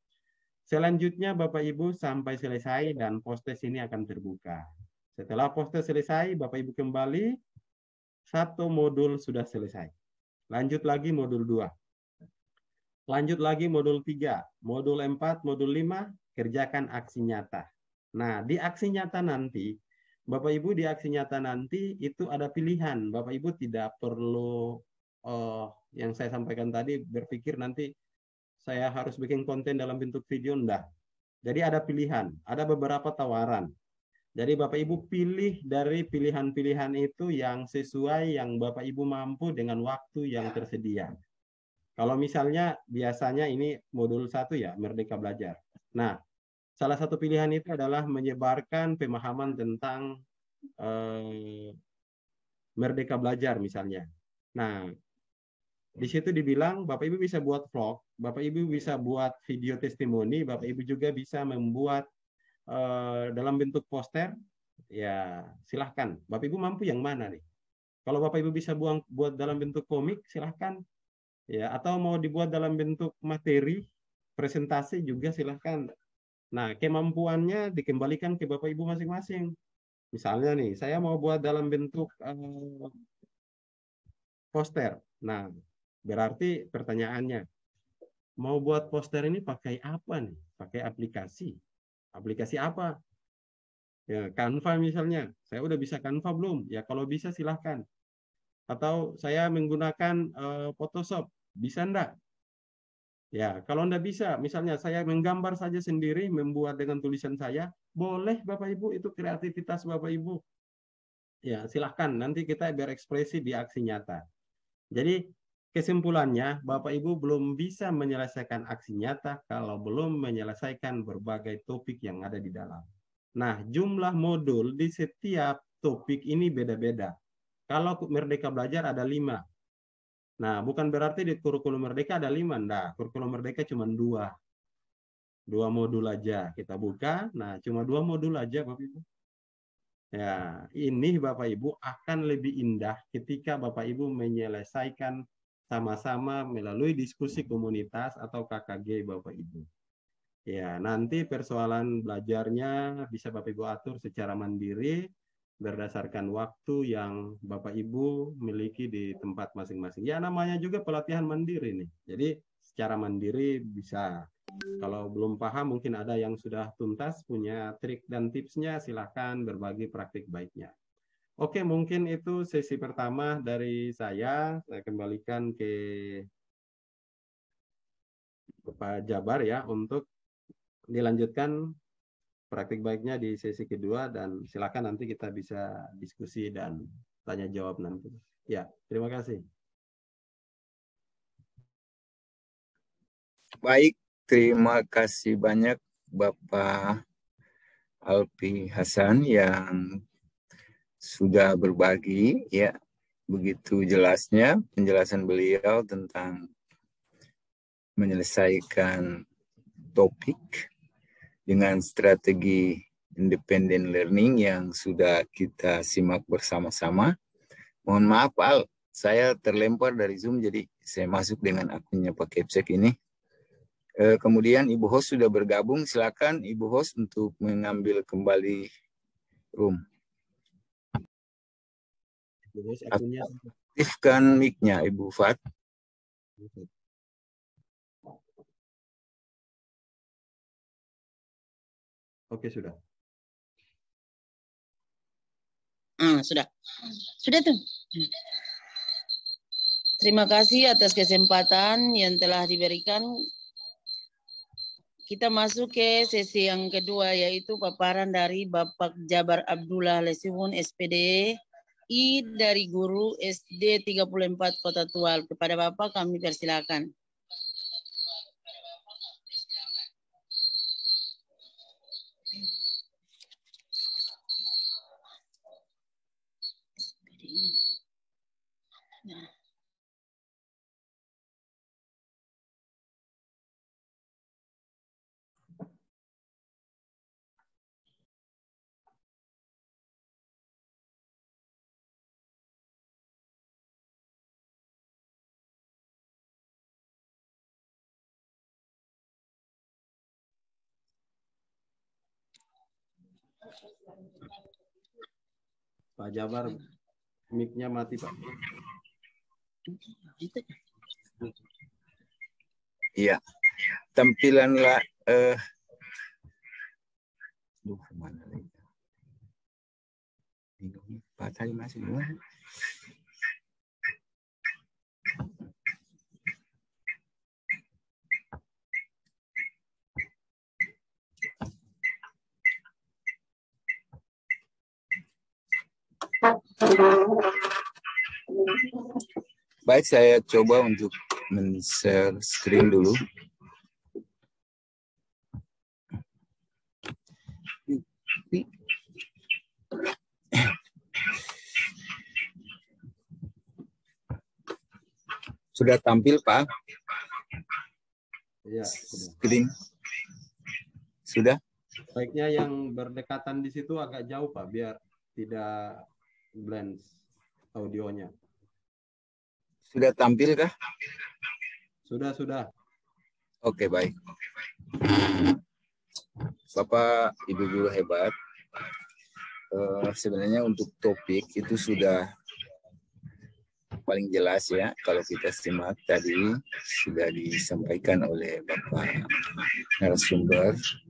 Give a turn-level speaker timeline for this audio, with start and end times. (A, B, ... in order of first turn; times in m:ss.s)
0:00.7-0:07.4 A
0:08.3-0:09.9 A
0:10.5-0:11.7 A
0:13.1-0:17.6 A
0:18.2-0:19.7 A
0:20.3-0:27.9 A
0:28.6-0:30.8 A
0:31.4-0:33.7 A
0:34.4-0:41.1 A
0:42.0-0:46.2 A
0:46.8-0:50.1 A
0:50.8-0:51.7 A
0:52.8-0:54.9 A
0:56.0-1:02.0 A
1:02.7-1:04.3 A
1:04.9-1:07.4 A
1:08.1-1:10.8 A
1:11.5-1:13.8 A
1:14.4-1:15.9 A
1:16.5-1:19.5 A
1:20.1-1:23.0 A
1:24.5-1:25.5 A
1:26.1-1:27.4 A
1:28.4-1:31.6 A
1:32.1-1:32.9 A
1:34.1-1:37.8 A
1:38.7-1:42.1 A
1:43.3-1:50.4 A
1:51.5-1:54.2 A
1:54.9-1:55.2 A
1:55.7-2:07.1 A
2:07.7-2:09.4 A
2:10.4-2:14.3 A
2:15.5-2:19.0 A
2:20.1-2:29.7 A
2:30.5-2:35.0 A
2:35.6-2:44.2 A
2:44.8-2:50.7 A
2:51.4-2:56.2 A
2:58.7-3:00.0 A
3:00.9-3:01.6 A
3:02.5-3:09.4 A
3:13.6-3:17.0 B
3:18.0-3:20.0 B
3:21.0-3:22.7 B
3:23.3-3:26.5 B
3:28.0-3:29.2 B
3:29.9-3:30.7 B
3:31.5-3:37.1 B
3:37.8-3:43.0 B
3:44.0-3:48.7 B
3:49.5-3:49.8 B
3:52.5-3:53.5 A
3:53.8-3:55.4 B
3:56.4-3:56.7 A
4:02.3-4:02.8 A
4:06.0-4:06.5 C
4:07.2-4:08.1 C
4:10.0-4:13.2 C
4:15.1-4:21.4 C
4:21.9-4:26.9 C
4:37.1-4:37.6 C
5:06.0-5:06.6 A
5:07.3-5:08.3 A
5:09.7-5:10.5 C
5:13.9-5:15.4 B
5:17.6-5:18.6 B
5:20.6-5:22.2 B
5:36.6-5:37.3 B
5:39.7-5:43.0 B
5:47.7-5:48.5 B
5:55.5-5:56.5 B
5:58.5-5:59.1 A
5:58.8-5:59.5 B
6:01.1-6:01.4 B
6:01.9-6:05.8 A
6:06.4-6:07.0 A
6:07.5-6:08.1 A
6:09.7-6:10.5 B
6:11.9-6:12.5 A
6:13.4-6:14.0 B
6:14.7-6:15.4 B
6:16.5-6:18.1 B
6:19.5-6:22.1 B
6:23.8-6:30.7 B